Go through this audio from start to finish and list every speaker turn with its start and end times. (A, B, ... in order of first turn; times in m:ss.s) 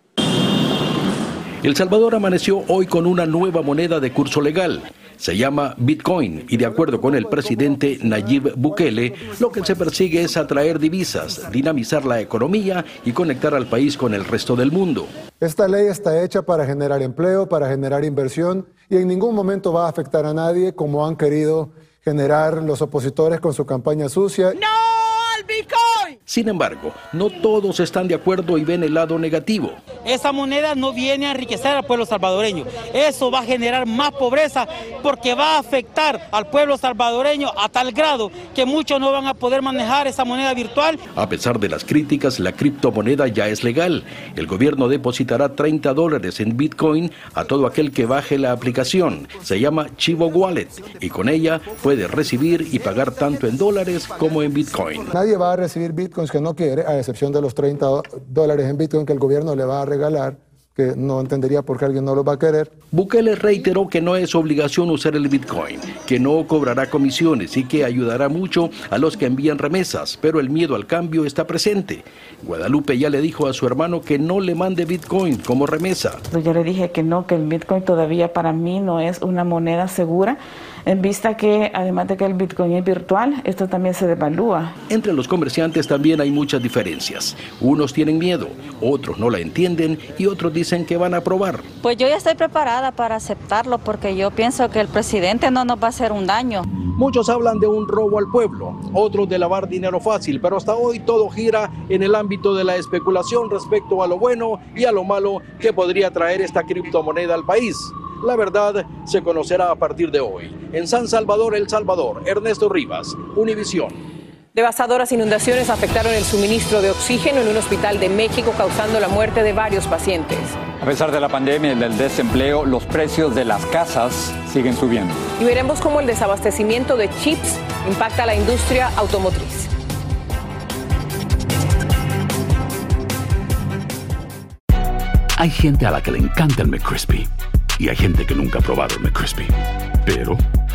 0:01.6-0:15.1 A
0:15.4-0:24.6 B
0:26.3-0:29.8 A
0:30.0-0:41.0 C
0:41.2-0:55.1 A
0:55.1-1:02.8 B
1:02.9-1:16.2 A
1:16.3-1:24.7 D
1:24.9-1:31.7 A
1:31.8-1:36.6 E
1:37.0-1:54.0 A
1:54.5-2:00.6 F
2:00.8-2:05.2 G
2:05.4-2:09.7 F
2:15.4-2:17.3 H
2:17.8-2:19.5 H
2:20.1-2:20.4 H